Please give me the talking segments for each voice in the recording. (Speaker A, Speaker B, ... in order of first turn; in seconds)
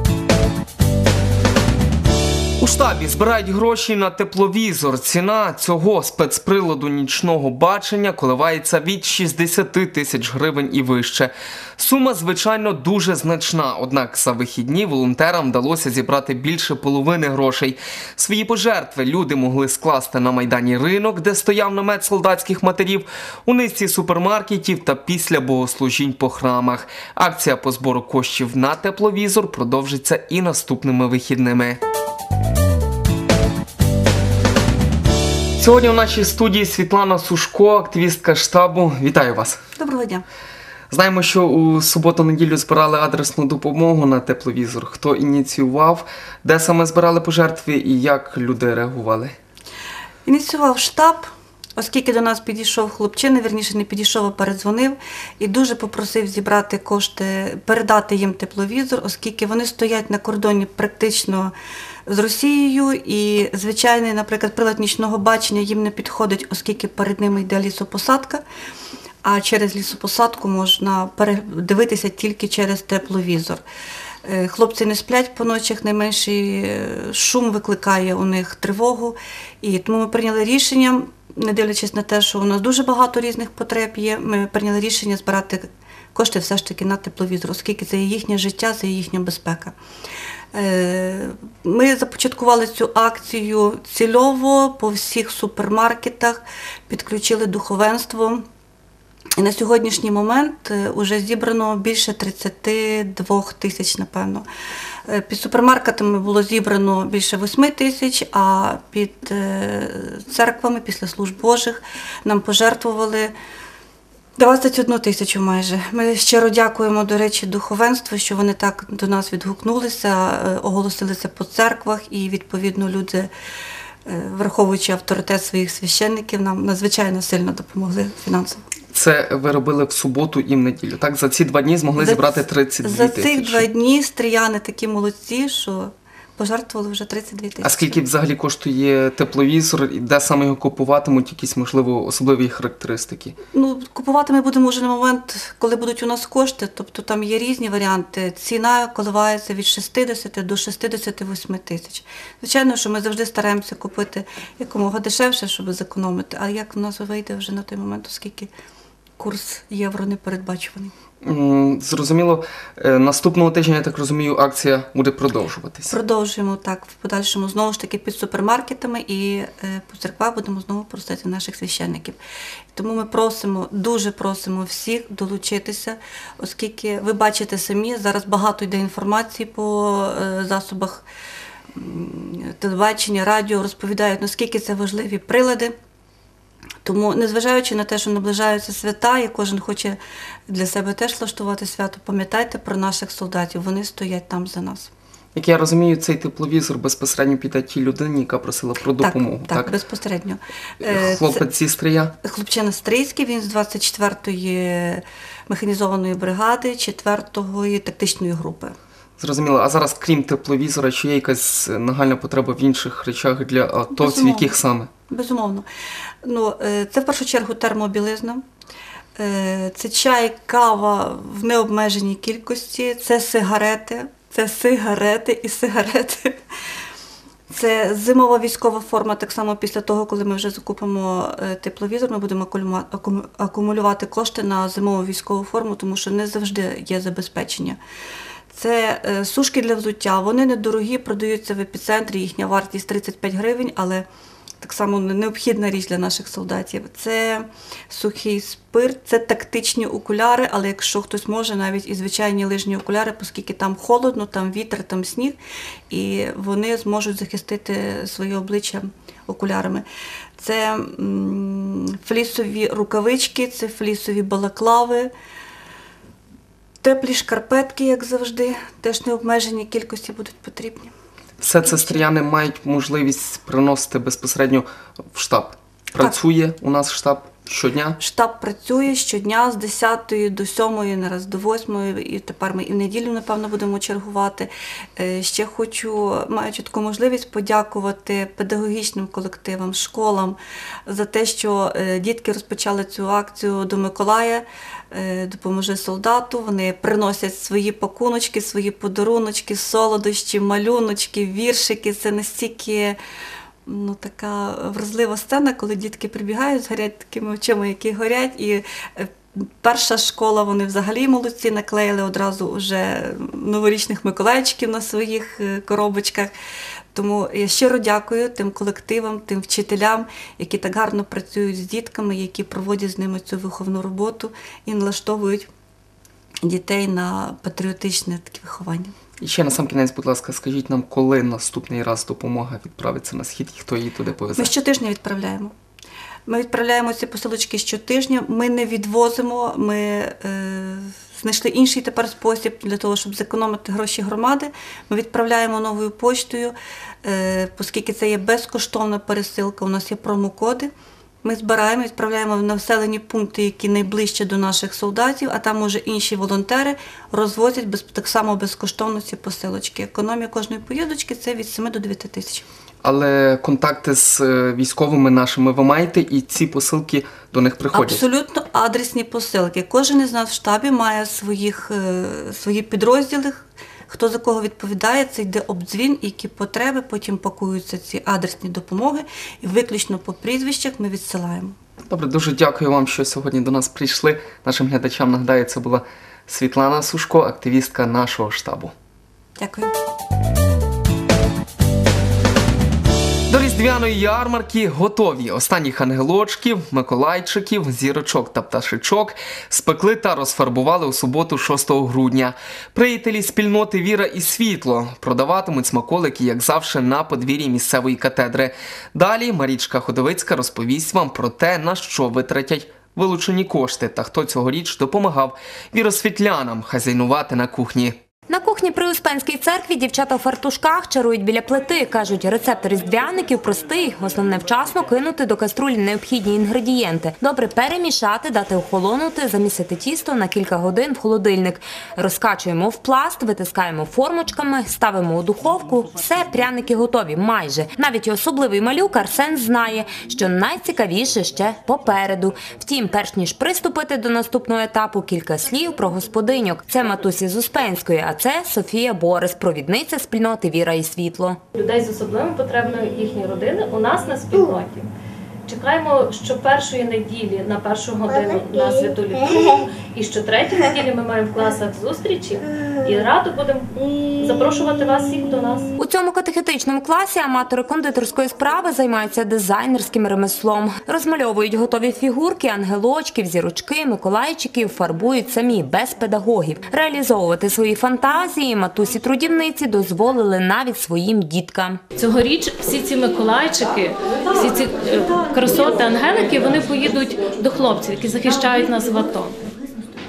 Speaker A: 2.6-31.8, 35.6-39.6, 40.9-49.4, 128.9-133.7, 137.6-143.4, 161.2-166.0, 195.3-199.7, 200.8-202.1, 209.2-214.9, 271.4-278.0, 329.2-334.5, 362.8-368.0, 381.9-388.7, 393.3-418.0
Speaker B: 39.8-40.2, 50.2-51.3, 51.8-61.5, 62.1-68.4, 69.2-73.6, 74.2-89.8, 90.5-98.4, 99.4-104.5, 105.1-113.3, 114.4-123.3, 124.1-128.6, 132.0-138.0, 143.5-158.5, 159.2-160.9, 165.9-172.2, 172.7-181.1, 181.8-185.7, 186.8-194.9, 199.0-201.4, 202.2-208.7, 213.9-214.6, 215.1-215.7, 216.2-218.4, 219.2-226.4, 227.5-237.8, 238.5-244.1, 244.6-255.4, 255.9-259.9, 260.4-265.1, 266.8-270.9, 271.6-272.0, 278.0-303.0, 303.7-316.3, 316.9-325.5, 326.4-328.9, 334.4-335.5, 336.3-350.7, 351.2-362.4, 367.7-381.6, 389.4-389.7
Speaker C: 418.3-451.4, 465.8-481.8
Speaker D: 451.5-454.9, 455.5-465.7, 482.0-489.4